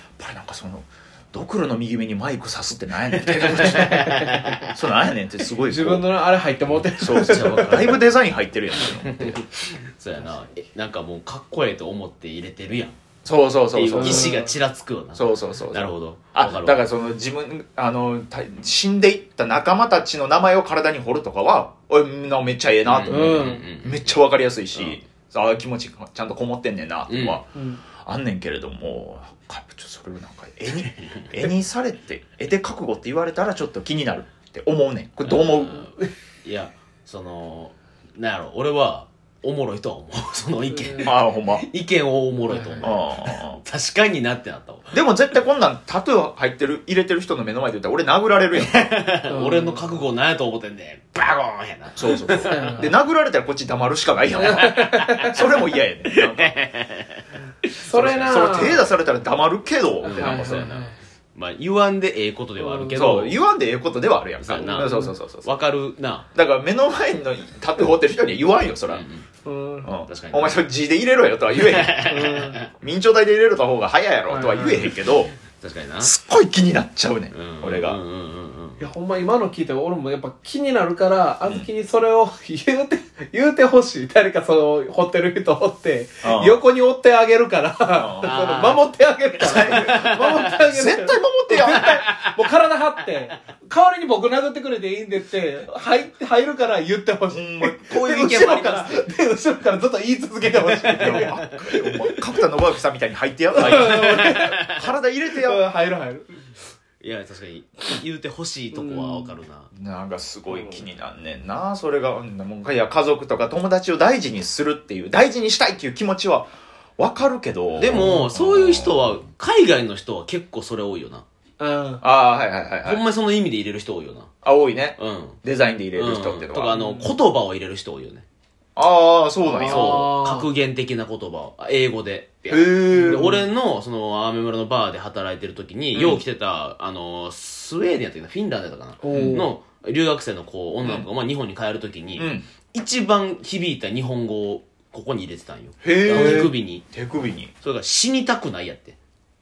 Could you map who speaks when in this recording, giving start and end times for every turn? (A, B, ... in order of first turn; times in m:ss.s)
0:00.2-0:04.1 A
0:03.3-0:04.7 B
0:03.9-0:04.3 C
0:04.7-0:06.2 A
0:05.6-0:08.0 C
0:06.7-0:08.2 B
0:07.0-0:09.4 A
0:09.0-0:12.9 B
0:13.2-0:14.4 A
0:13.7-0:16.9 B
0:14.0-0:14.6 C
0:15.1-0:27.4 A
0:22.8-0:24.2 B
0:23.1-0:23.6 C
0:24.7-0:25.0 B
0:27.1-0:27.4 B
0:27.5-0:27.8 C
0:28.0-0:35.9 A
0:35.2-0:45.0 B
0:40.8-0:41.1 C
0:41.0-0:41.6 A
0:42.5-0:43.0 C
0:42.8-0:43.6 A
0:44.9-0:49.1 A
0:48.6-0:52.8 B
0:49.3-0:50.0 C
0:52.0-0:56.6 A
0:52.4-0:52.9 C
0:54.3-0:55.4 C
0:54.4-0:55.4 B
0:56.1-0:58.4 B
0:57.8-0:58.9 C
0:57.9-1:00.7 A
1:00.0-1:03.4 B
1:00.0-1:01.0 C
1:02.6-1:02.9 C
1:02.9-1:05.5 A
1:04.4-1:06.3 B
1:04.8-1:05.2 C
1:06.3-1:09.0 A
1:08.9-1:09.3 B
1:09.4-1:09.9 C
1:09.8-1:12.0 A
1:10.1-1:10.6 B
1:11.5-1:12.7 B
1:12.1-1:12.6 C
1:12.7-1:15.3 A
1:14.3-1:14.9 C
1:15.4-1:16.1 B
1:16.0-1:18.0 A
1:17.3-1:18.9 B
1:18.8-1:41.4 C
1:26.2-1:26.6 A
1:27.9-1:28.5 A
1:28.2-1:30.6 B
1:29.4-1:32.1 A
1:31.8-1:32.5 B
1:37.3-1:39.0 A
1:37.9-1:38.9 B
1:40.9-1:45.6 A
1:40.9-1:42.0 B
1:43.5-1:44.6 C
1:43.6-1:44.8 B
1:45.3-1:46.4 C
1:47.0-1:49.7 B
1:48.7-1:49.4 C
1:49.7-1:59.1 A
1:57.8-2:01.2 B
2:01.6-2:02.0 C
2:02.0-2:03.0 A
2:02.8-2:04.3 B
2:04.4-2:06.9 A
2:05.0-2:05.4 B
2:06.0-2:08.2 B
2:06.8-2:07.1 C
2:08.8-2:10.1 A
2:09.4-2:10.5 C
2:09.6-2:26.8 B
2:12.5-2:13.4 A
2:12.9-2:13.4 C
2:15.9-2:16.2 A
2:19.0-2:19.6 C
2:19.1-2:19.5 A
2:22.2-2:22.4 A
2:25.8-2:27.5 A
2:26.1-2:26.5 C
2:27.6-2:29.0 B